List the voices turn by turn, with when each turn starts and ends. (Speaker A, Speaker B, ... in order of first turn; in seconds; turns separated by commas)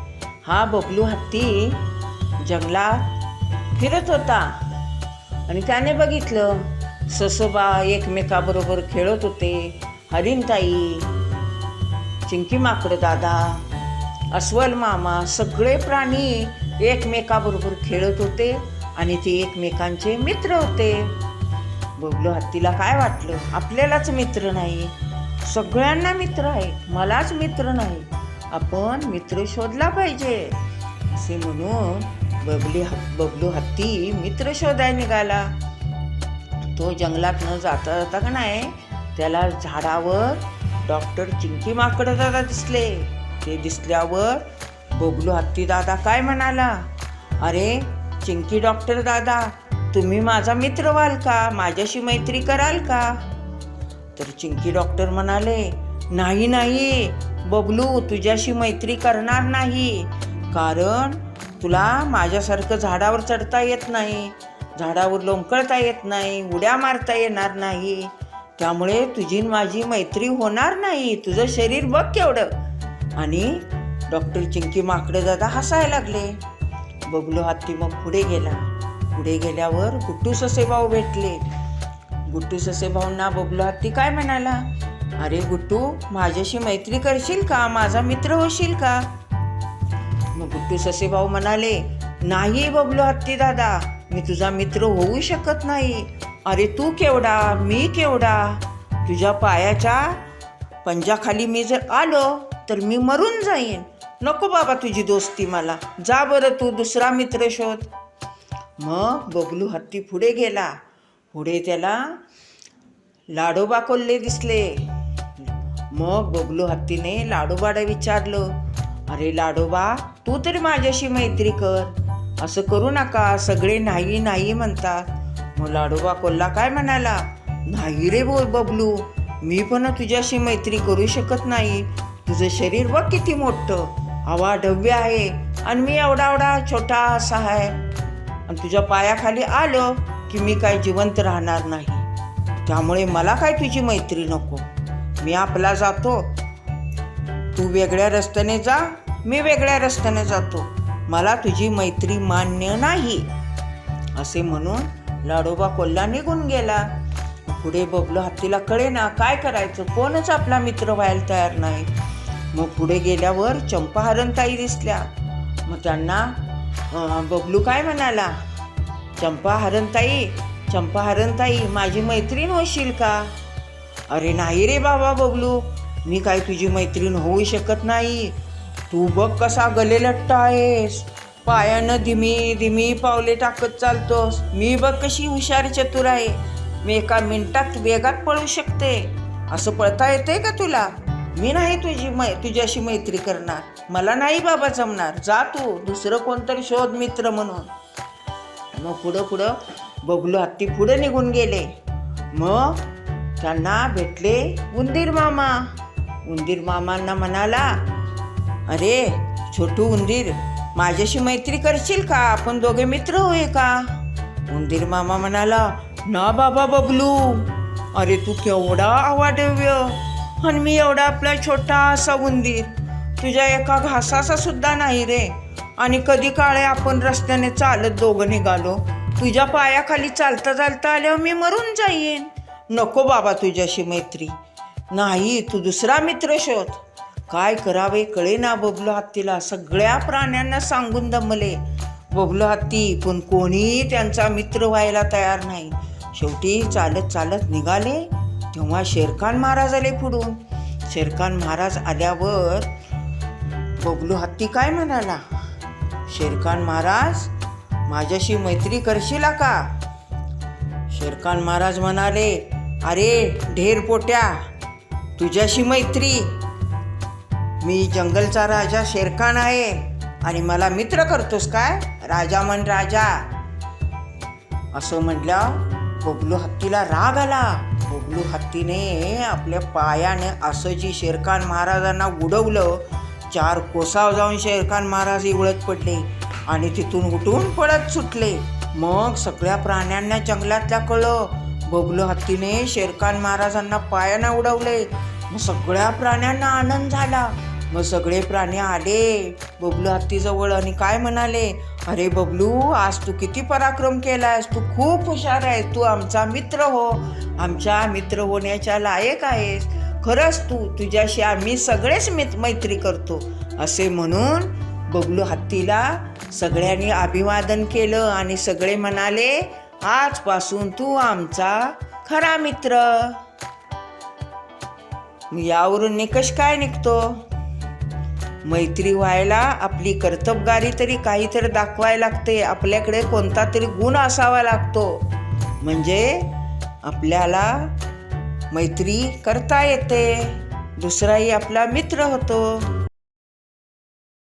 Speaker A: 0.5-1.8, Speaker A: 2.4-3.1, Speaker A: 3.8-4.5, Speaker A: 5.5-11.1, Speaker A: 12.2-13.6, Speaker A: 14.3-21.1, Speaker A: 22.0-30.6, Speaker A: 31.1-35.5, Speaker A: 36.7-46.9, Speaker A: 47.4-53.1, Speaker A: 54.1-72.5, Speaker A: 73.2-76.3, Speaker A: 77.1-81.4, Speaker A: 82.3-84.7, Speaker A: 85.2-89.1, Speaker A: 90.3-100.2, Speaker A: 100.8-107.9, Speaker A: 108.8-110.8, Speaker A: 111.3-112.2, Speaker A: 113.3-114.8, Speaker A: 115.9-118.5, Speaker A: 119.1-137.8, Speaker A: 138.5-142.1, Speaker A: 142.6-144.6, Speaker A: 145.2-146.3, Speaker A: 147.5-153.2, Speaker A: 154.2-156.9, Speaker A: 157.4-161.9, Speaker A: 162.5-165.1, Speaker A: 165.7-168.3, Speaker A: 169.2-173.3, Speaker A: 174.1-178.3, Speaker A: 178.9-197.7, Speaker A: 198.8-201.7, Speaker A: 202.3-202.8, Speaker A: 203.4-205.7, Speaker A: 206.2-207.7, Speaker A: 208.7-213.9, Speaker A: 214.5-234.3, Speaker A: 234.9-241.6, Speaker A: 242.1-252.7, Speaker A: 253.8-255.2, Speaker A: 256.1-257.3, Speaker A: 257.9-259.7, Speaker A: 260.9-264.3, Speaker A: 265.2-266.3, Speaker A: 267.6-273.2, Speaker A: 274.7-323.2, Speaker A: 325.3-327.1, Speaker A: 328.4-335.0, Speaker A: 335.6-336.3, Speaker A: 336.8-337.7, Speaker A: 338.5-342.6